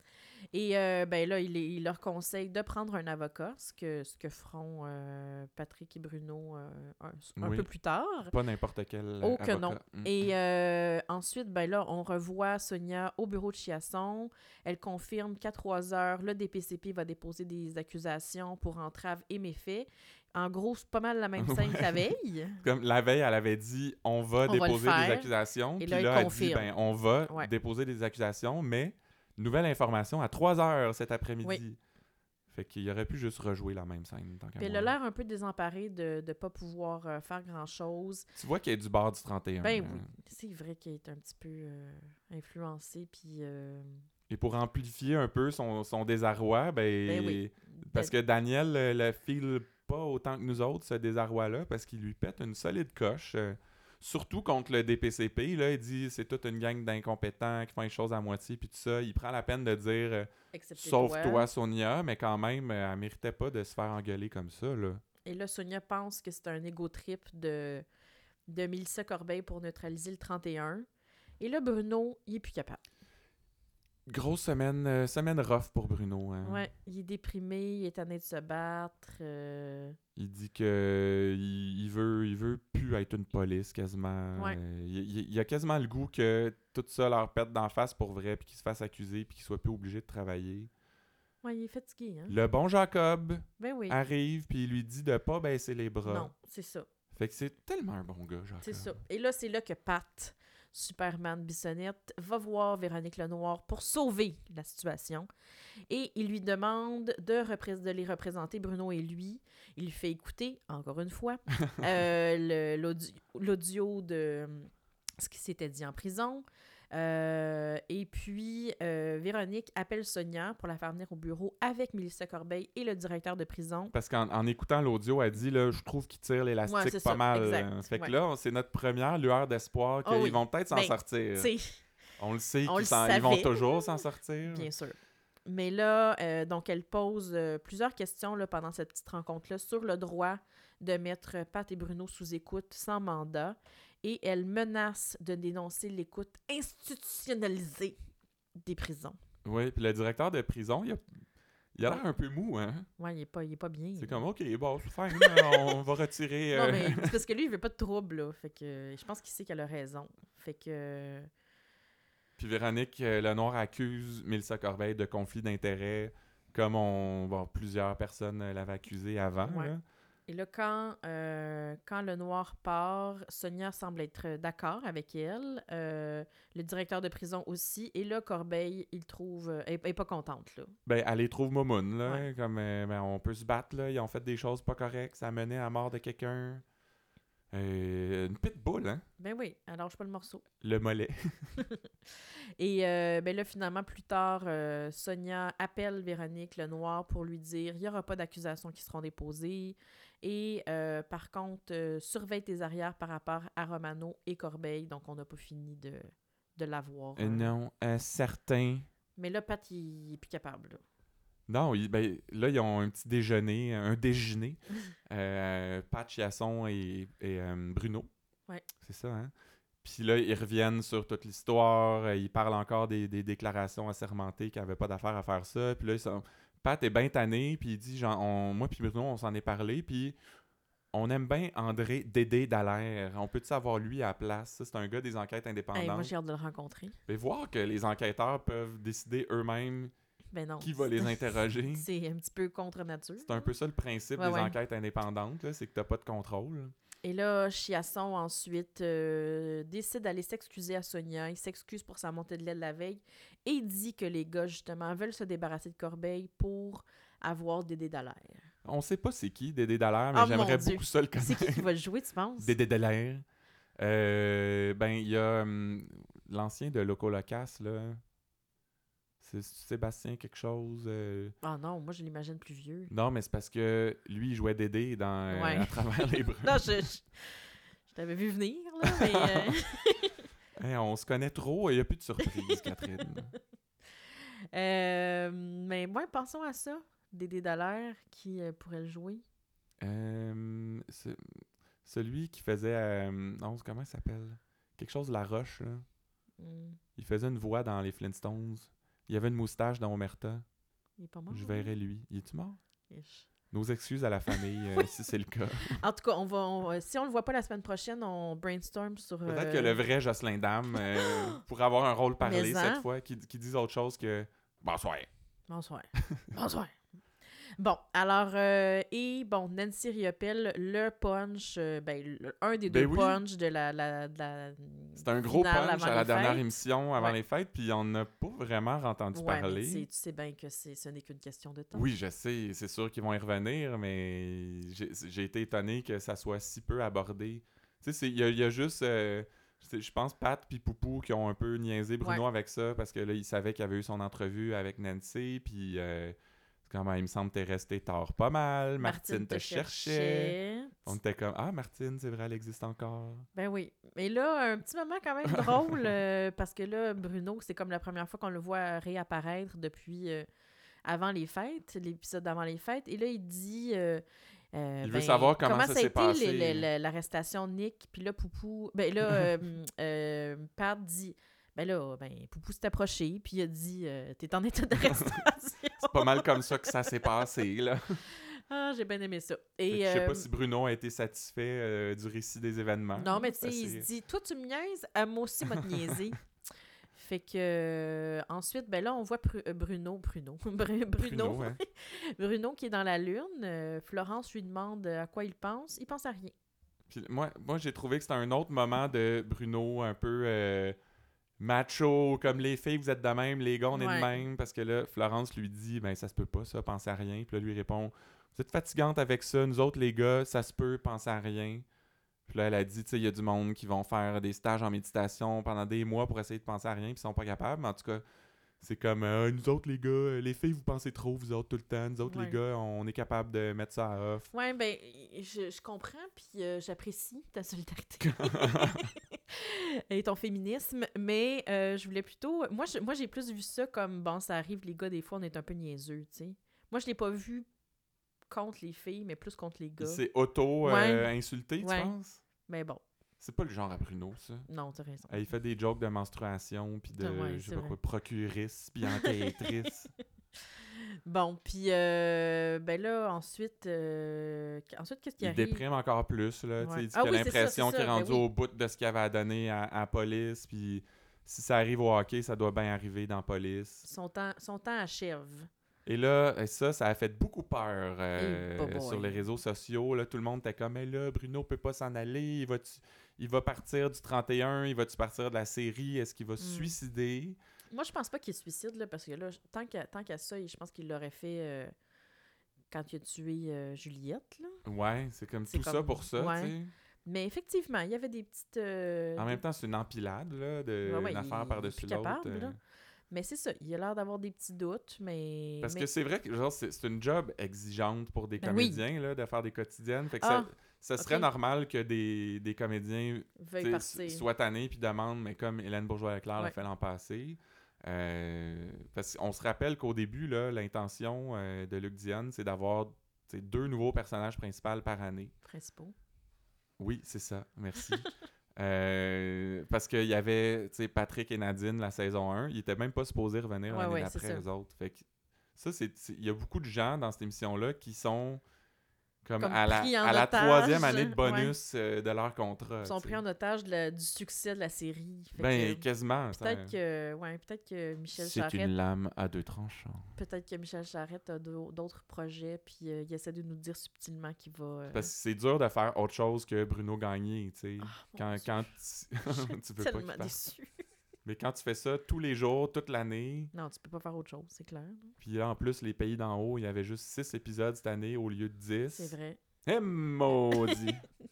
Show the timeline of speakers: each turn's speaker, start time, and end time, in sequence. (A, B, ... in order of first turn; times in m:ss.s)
0:00.5-0:08.3 A
0:07.4-0:07.7 B
0:08.3-0:10.3 B
0:09.2-0:22.6 A
0:21.4-0:22.1 B
0:22.6-0:31.8 B
0:24.4-0:26.7 A
0:32.5-0:34.9 B
0:34.6-0:38.3 A
0:38.4-0:40.1 B
0:39.6-0:44.0 A
0:44.3-1:05.0 B
0:47.1-0:48.1 A
1:00.5-1:01.5 A
1:05.2-1:07.8 A
1:08.5-1:10.8 A
1:11.4-1:12.8 A
1:14.1-1:16.6 B
1:16.4-1:20.0 A
1:20.2-1:30.7 B
1:31.4-1:32.3 A
1:32.3-1:36.3 B
1:33.6-1:34.0 A
1:36.0-1:36.9 A
1:37.1-1:39.0 B
1:38.6-1:45.3 A
1:45.9-2:03.9 A
2:03.9-2:11.5 B
2:06.7-2:08.1 A
2:10.0-2:11.8 A
2:12.2-2:14.7 B
2:12.6-2:28.0 A
2:28.6-2:29.2 A
2:29.4-2:31.0 B
2:31.7-2:32.9 B
2:33.0-2:34.2 A
2:34.0-2:37.2 B
2:35.1-2:35.8 A
2:36.5-2:41.3 A
2:42.4-2:49.8 B
2:49.4-2:49.7 A
2:50.3-3:00.7 A
3:00.8-3:06.6 B
3:07.5-3:09.0 B
3:09.2-3:10.4 A
3:10.6-3:11.6 B
3:11.6-3:27.5 A
3:27.2-3:28.9 B
3:29.2-3:30.8 A
3:31.5-3:38.1 B
3:38.8-3:39.3 B
3:39.8-3:50.2 B
3:50.9-3:56.1 B
3:55.7-3:57.0 A
3:57.1-3:59.9 B
4:00.3-4:03.5 A
4:00.6-4:01.8 B
4:03.2-4:06.7 B
4:04.2-4:04.6 A
4:07.0-4:18.5 A
4:18.6-4:21.6 B
4:20.1-4:22.5 A
4:22.4-4:23.2 B
4:23.8-4:28.0 B
4:29.2-4:31.3 B
4:31.4-4:32.9 A
4:32.9-4:36.8 B
4:35.3-4:40.2 A
4:38.8-4:39.6 B
4:40.6-4:43.3 B
4:42.2-4:43.4 A
4:44.1-4:49.2 A
4:49.8-4:51.2 B
4:51.8-4:55.8 B
4:56.4-4:56.8 A
4:57.0-5:00.4 B
5:01.0-5:01.7 A
5:01.3-5:02.6 B
5:02.9-5:03.3 A
5:03.5-5:05.8 B
5:04.3-5:04.9 A
5:05.8-5:09.9 A
5:09.2-5:15.1 B
5:10.7-5:11.4 A
5:12.2-5:12.8 A
5:15.5-5:16.7 A
5:17.6-5:26.4 A
5:22.7-5:23.2 B
5:25.0-5:29.8 B
5:29.1-5:31.9 A
5:31.7-5:53.3 B
5:48.8-5:50.9 A
5:53.3-6:00.2 A
5:55.3-5:55.9 B
6:00.8-6:16.9 A
6:04.8-6:06.7 B
6:14.9-6:15.2 B
6:15.8-6:18.0 B
6:18.1-6:20.2 A
6:19.7-6:23.9 B
6:23.0-6:26.2 A
6:25.5-6:26.0 B
6:26.9-6:36.3 A
6:31.0-6:31.6 B
6:36.9-6:40.8 B
6:41.4-6:51.6 B
6:43.7-6:44.2 A
6:52.3-6:58.0 B
6:58.6-7:04.3 B
7:02.1-7:02.4 A
7:04.3-7:17.5 A
7:08.0-7:08.9 B
7:18.3-7:20.0 A
7:19.8-7:22.2 B
7:20.6-7:21.1 A
7:21.6-7:21.9 A
7:22.5-7:22.8 A
7:23.2-7:24.5 B
7:24.5-7:25.2 A
7:25.1-7:29.9 B
7:27.0-7:27.8 A
7:28.9-7:29.7 A
7:30.5-7:35.6 A
7:35.2-7:43.9 B
7:36.6-7:38.2 A
7:43.8-7:45.5 A
7:45.8-7:57.4 B
7:48.2-7:49.2 A
7:56.4-7:56.7 A
7:57.7-8:01.7 A
8:02.7-8:04.6 A
8:04.6-8:06.7 B
8:05.5-8:06.5 A
8:07.0-8:09.4 A
8:09.2-8:12.6 B
8:10.8-8:12.6 A
8:13.1-8:15.9 A
8:15.6-8:35.3 B
8:18.4-8:18.8 A
8:20.2-8:21.3 A
8:23.4-8:24.2 A
8:35.4-8:35.9 A
8:36.8-8:45.0 B
8:37.8-8:38.1 A
8:43.7-8:44.4 A
8:45.6-8:48.4 B
8:49.2-8:53.2 B
8:49.4-8:51.5 A
8:52.8-8:58.7 A
8:55.4-8:56.8 B
8:58.2-9:00.1 B
9:00.2-9:05.1 A
9:04.9-9:10.4 B
9:07.8-9:08.6 A
9:09.3-9:10.7 A
9:11.2-9:13.5 B
9:13.5-9:15.1 A
9:15.2-9:19.1 B
9:18.9-9:19.4 A
9:19.6-9:21.0 B
9:20.5-9:20.9 A